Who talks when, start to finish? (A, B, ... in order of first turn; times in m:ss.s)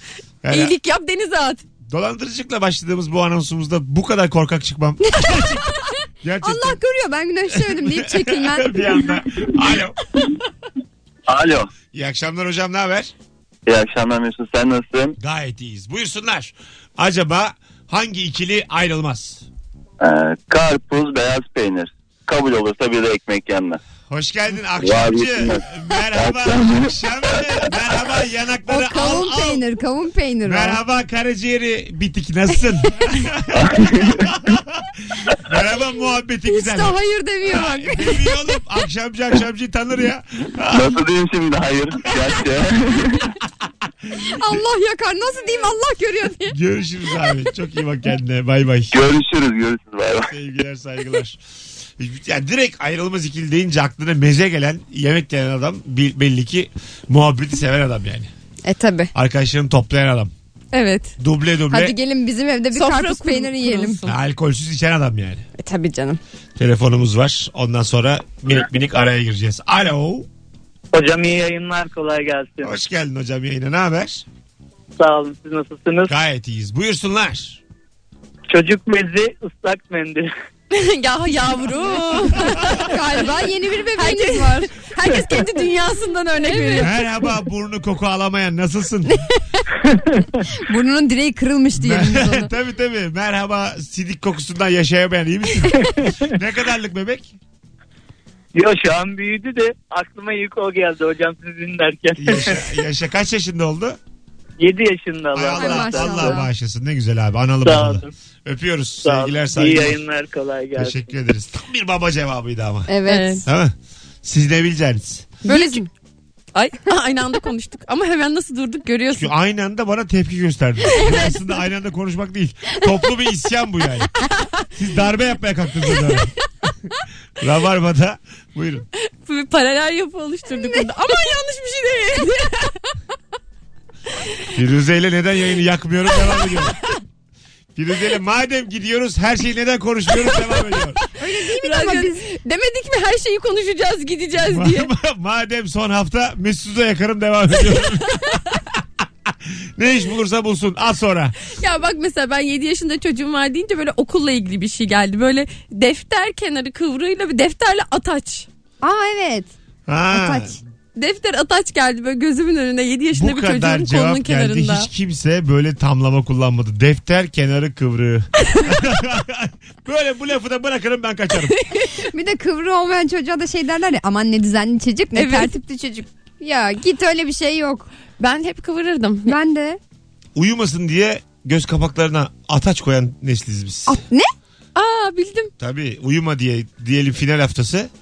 0:00.4-0:00.7 A
0:00.5-0:01.6 B
0:01.8-0:05.6 A
0:05.2-0:05.9 C
0:06.2-0:06.8 A
0:06.4-0:09.0 C
0:07.5-0:10.0 A
0:11.3-0:11.7 D
0:11.9-0:13.1 A
0:13.6-0:15.1 D
0:15.2-0:19.4 A
0:20.0-0:23.8 D
0:24.1-0:29.6 A
0:24.8-0:25.6 D
0:26.2-0:26.8 D
0:28.7-0:30.8 C
0:30.4-0:41.0 A
0:33.7-0:34.2 D
0:36.5-0:38.6 C
0:40.7-0:43.3 D
0:44.1-0:44.6 A
0:44.3-0:46.6 C
0:46.5-0:49.1 A
0:48.9-0:50.3 D
0:50.3-0:51.4 A
0:52.0-0:58.3 A
0:58.6-0:59.1 C
0:59.1-1:00.3 A
1:00.7-1:01.1 B
1:01.2-1:01.9 A
1:01.7-1:04.0 C
1:02.7-1:04.2 B
1:04.0-1:05.4 A
1:05.6-1:06.2 C
1:06.6-1:10.3 A
1:10.9-1:12.7 E
1:12.6-1:14.2 A
1:15.0-1:16.1 E
1:16.1-1:17.6 A
1:18.5-1:20.3 E
1:20.7-1:22.9 B
1:22.5-1:22.8 A
1:22.8-1:25.1 C
1:24.0-1:26.9 B
1:26.4-1:26.9 C
1:26.8-1:29.2 A
1:30.6-1:32.5 C
1:31.8-1:37.4 A
1:38.5-1:42.7 E
1:42.2-1:44.0 A
1:44.6-1:46.4 E
1:45.3-1:50.0 A
1:45.5-1:46.5 C
1:47.6-1:48.1 E
1:49.0-1:51.0 E
1:50.8-1:52.9 A
1:52.9-1:53.5 C
1:53.0-1:53.4 B
1:53.4-1:55.4 A
1:55.4-1:55.8 B
1:55.4-1:55.9 C
1:56.5-1:59.3 B
1:59.1-2:04.1 A
2:04.7-2:06.3 A
2:07.4-2:08.8 A
2:09.2-2:12.8 B
2:10.5-2:10.9 C
2:14.5-2:16.8 A
2:17.8-2:21.0 A
2:21.2-2:22.2 C
2:21.6-2:24.9 B
2:24.4-2:31.4 A
2:31.6-2:38.5 B
2:38.8-2:39.5 C
2:39.9-2:40.6 A
2:40.1-2:40.6 C
2:41.0-2:44.9 B
2:43.1-2:51.6 A
2:52.0-2:57.9 C
2:55.1-2:55.5 B
2:58.2-2:59.3 B
2:59.2-2:59.8 C
3:00.3-3:04.0 A
3:03.9-3:04.3 C
3:04.7-3:05.5 B
3:05.6-3:07.9 A